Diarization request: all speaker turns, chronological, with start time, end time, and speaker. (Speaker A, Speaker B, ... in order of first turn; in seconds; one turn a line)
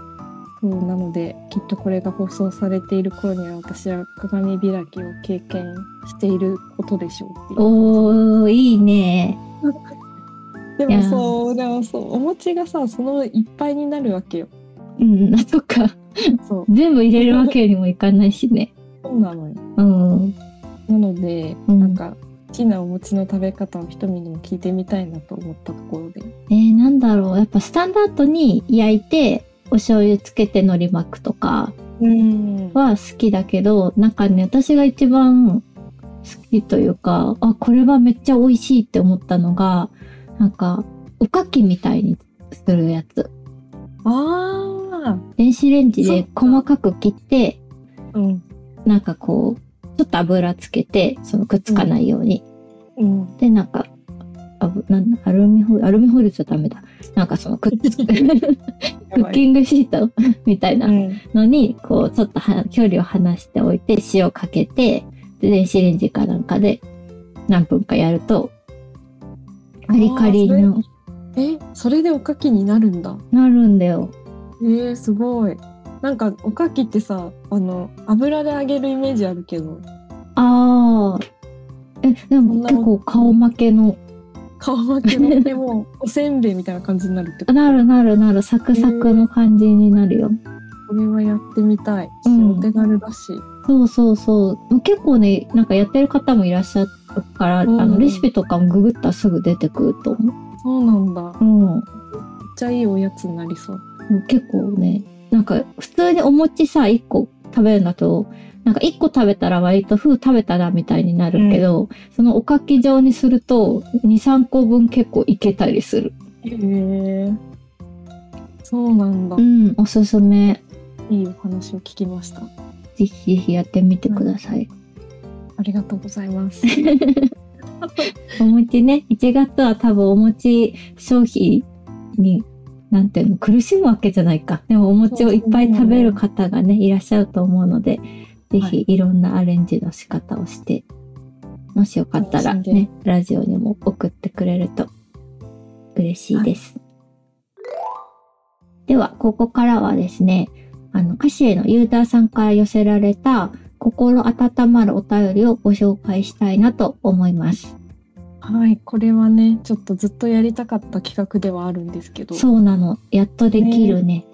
Speaker A: 0.6-8.2
Speaker B: 7.6-9.4
Speaker A: 9.6-9.9
Speaker A: 10.8-14.5
Speaker B: 10.9-11.3
Speaker B: 15.0-18.7
Speaker A: 16.4-17.5
Speaker A: 19.0-19.6
Speaker B: 19.8-20.3
Speaker A: 20.9-26.3
Speaker B: 21.7-22.0
Speaker B: 26.5-31.7
Speaker A: 32.0-32.8
Speaker B: 32.7-35.6
Speaker B: 36.2-43.3
Speaker A: 44.0-45.2
Speaker B: 45.4-47.6
Speaker A: 46.0-46.6
Speaker A: 48.1-48.4
Speaker B: 48.8-52.4
Speaker A: 53.0-53.4
Speaker B: 53.4-53.9
Speaker B: 54.6-66.8
Speaker A: 57.8-58.1
Speaker A: 59.1-59.4
Speaker A: 60.8-61.2
Speaker B: 67.5-68.5
Speaker A: 69.9-70.8
Speaker B: 69.9-70.8
Speaker A: 71.3-73.2
Speaker B: 73.3-74.1
Speaker A: 74.6-79.8
Speaker B: 80.3-81.2
Speaker B: 82.0-84.0
Speaker A: 82.4-82.9
Speaker A: 84.6-87.8
Speaker B: 85.1-85.4
Speaker B: 87.5-90.4
Speaker A: 88.7-89.2
Speaker A: 90.9-93.4
Speaker B: 92.2-92.7
Speaker B: 93.7-100.3
Speaker A: 97.7-98.3
Speaker A: 100.6-101.4
Speaker B: 101.4-101.9
Speaker A: 102.1-103.8
Speaker B: 104.1-116.1
Speaker A: 111.3-111.6
Speaker A: 116.4-117.4
Speaker A: 118.6-119.4
Speaker B: 119.4-120.6
Speaker A: 121.1-122.5
Speaker B: 123.0-124.7
Speaker A: 125.6-126.7
Speaker B: 126.7-127.3
Speaker A: 127.8-128.1
Speaker B: 128.4-140.8
Speaker A: 135.1-136.2
Speaker B: 141.7-144.9
Speaker A: 142.2-142.9
Speaker B: 145.9-146.8
Speaker B: 148.9-157.7
Speaker A: 158.4-162.4
Speaker B: 162.3-164.2
Speaker A: 163.5-164.0